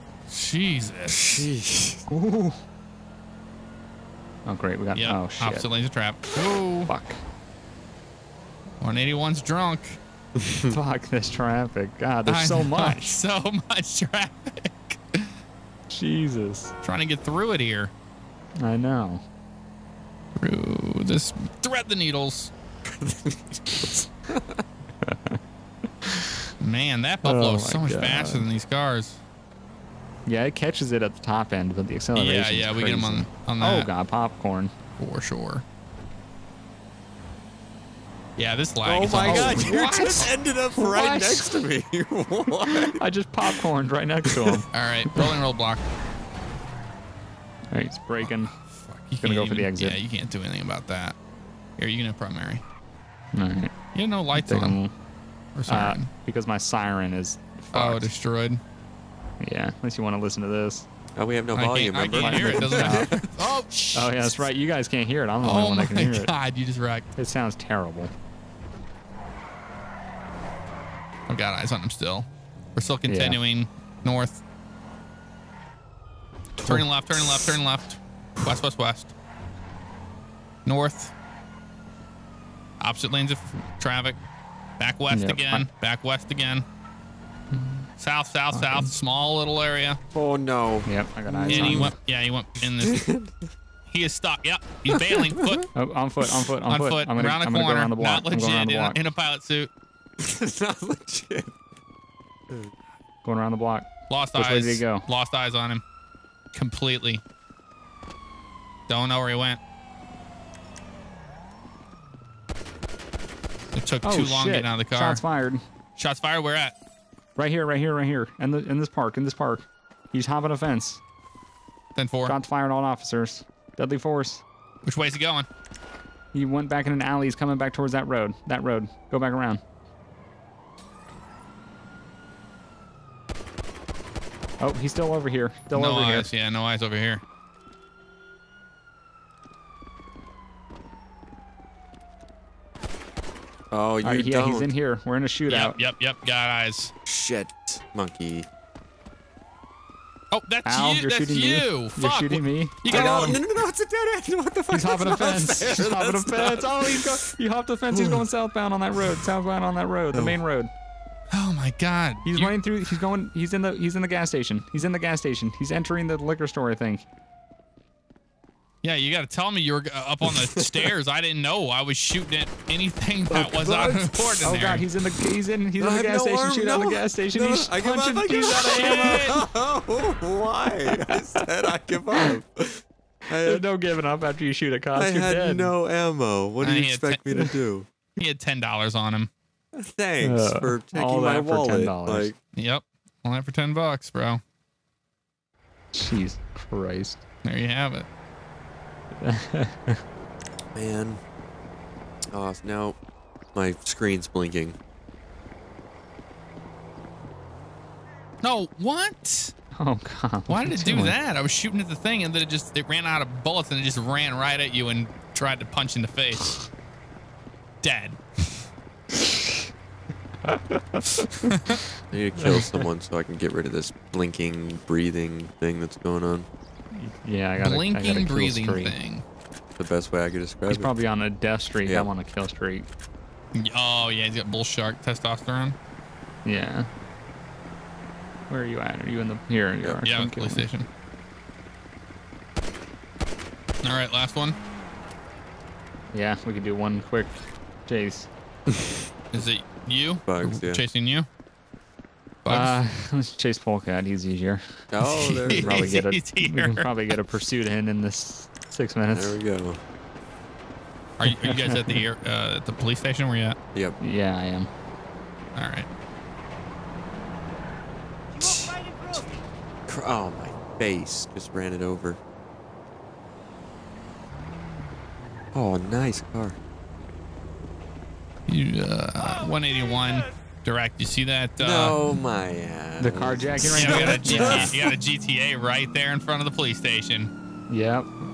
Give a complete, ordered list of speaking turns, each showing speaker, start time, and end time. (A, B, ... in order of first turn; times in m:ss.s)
0:00.3-0:01.5 A
0:01.1-0:02.0 B
0:02.1-0:02.6 C
0:04.5-0:05.7 C
0:05.0-0:06.9 A
0:06.8-0:07.2 C
0:08.8-0:10.0 A
0:10.4-0:10.8 B
0:10.7-0:13.2 C
0:12.3-0:15.3 A
0:15.9-0:16.7 C
0:16.8-0:17.9 A
0:18.6-0:19.2 C
0:20.4-0:22.5 A
0:22.9-0:24.6 B
0:25.0-0:25.4 C
0:26.0-0:26.3 C
0:26.6-0:29.2 A
0:27.2-0:28.5 C
0:30.3-0:34.7 C
0:32.2-0:33.9 A
0:35.0-0:35.6 A
0:38.4-0:40.3 A
0:38.8-0:43.0 B
0:39.1-0:39.8 C
0:40.8-0:41.5 C
0:43.0-0:44.6 C
0:44.3-0:44.6 B
0:44.7-0:45.8 A
0:47.7-0:48.5 C
0:48.2-0:51.2 A
0:49.2-0:50.0 C
0:51.8-0:52.6 A
0:53.3-0:53.7 C
0:54.0-0:54.8 A
0:54.3-0:54.9 C
0:55.6-0:56.1 A
0:55.7-0:58.1 C
0:57.7-0:58.6 A
0:59.4-1:00.9 C
1:01.2-1:03.3 B
1:01.5-1:04.5 A
1:02.1-1:03.2 C
1:03.9-1:06.3 C
1:05.4-1:07.1 A
1:07.2-1:08.1 C
1:11.3-1:14.4 A
1:13.1-1:13.4 C
1:16.6-1:19.1 A
1:20.7-1:21.1 A
1:22.8-1:24.2 A
1:24.8-1:26.6 A
1:25.1-1:25.7 C
1:27.5-1:27.9 C
1:28.0-1:30.0 A
1:28.5-1:28.9 C
1:30.1-1:31.9 B
1:30.9-1:32.0 C
1:31.5-1:33.0 A
1:32.6-1:33.5 B
1:33.9-1:35.7 A
1:35.0-1:35.6 B
1:35.8-1:39.0 C
1:36.7-1:39.7 A
1:40.2-1:41.6 B
1:43.2-1:45.1 C
1:44.1-1:45.8 A
1:46.5-1:47.2 A
1:48.9-1:49.6 A
1:53.7-1:55.2 A
1:54.0-1:55.6 C
1:56.0-1:56.7 A
1:57.4-2:01.0 C
2:02.0-2:02.4 A
2:02.2-2:04.4 C
2:04.8-2:05.5 A
2:06.3-2:09.6 C
2:14.6-2:16.3 C
2:15.7-2:17.2 A
2:23.7-2:24.7 B
2:24.0-2:25.8 C
2:25.5-2:26.9 A
2:27.1-2:28.5 B
2:30.3-2:33.4 A
2:30.6-2:33.4 C
2:32.9-2:37.3 B
2:34.7-2:40.7 C
2:37.9-2:38.2 B
2:40.1-2:40.4 B
2:41.3-2:42.6 A
2:42.2-2:47.0 C
2:48.8-2:54.9 A
2:50.2-2:50.9 B
2:53.3-2:59.4 C
2:55.8-3:03.6 B
2:58.5-2:59.4 A
3:00.9-3:01.4 C
3:03.4-3:05.7 C
3:05.0-3:07.9 B
3:06.6-3:07.2 A
3:08.2-3:09.3 A
3:09.7-3:12.4 B
3:10.2-3:12.3 C
3:12.5-3:14.4 A
3:15.9-3:17.2 C
3:17.4-3:18.1 A
3:19.2-3:20.0 C
3:20.8-3:21.2 B
3:22.3-3:23.0 B
3:23.5-3:24.8 B
3:28.4-3:29.5 A
3:29.8-3:31.2 C
3:30.5-3:36.6 A
3:37.8-3:38.5 A
3:39.1-3:39.5 C
3:40.4-3:41.5 C
3:41.5-3:41.8 A
3:42.1-3:46.5 B
3:42.4-3:42.7 C
3:46.9-3:49.0 C
3:47.6-3:49.2 A
3:49.8-3:51.0 B
3:50.7-3:52.9 C
3:51.8-3:52.1 B
3:53.5-3:55.8 A
3:56.4-3:56.9 C
3:58.5-4:00.7 C
4:00.0-4:00.9 A
4:03.8-4:04.6 A
4:06.1-4:08.3 C
4:09.3-4:11.3 A
4:10.3-4:10.8 B
4:12.4-4:12.8 A
4:12.5-4:14.6 C
4:14.9-4:16.0 B
4:15.0-4:16.9 A
4:15.5-4:19.4 C
4:19.1-4:19.8 B
4:21.2-4:23.6 A
4:21.3-4:22.0 C
4:24.0-4:24.7 C
4:25.6-4:25.9 A
4:28.4-4:29.3 B
4:29.9-4:32.2 B
4:35.5-4:36.6 B
4:38.5-4:42.0 A
4:41.6-4:44.9 B
4:43.0-4:44.7 C
4:43.6-4:47.3 A
4:47.7-4:48.1 C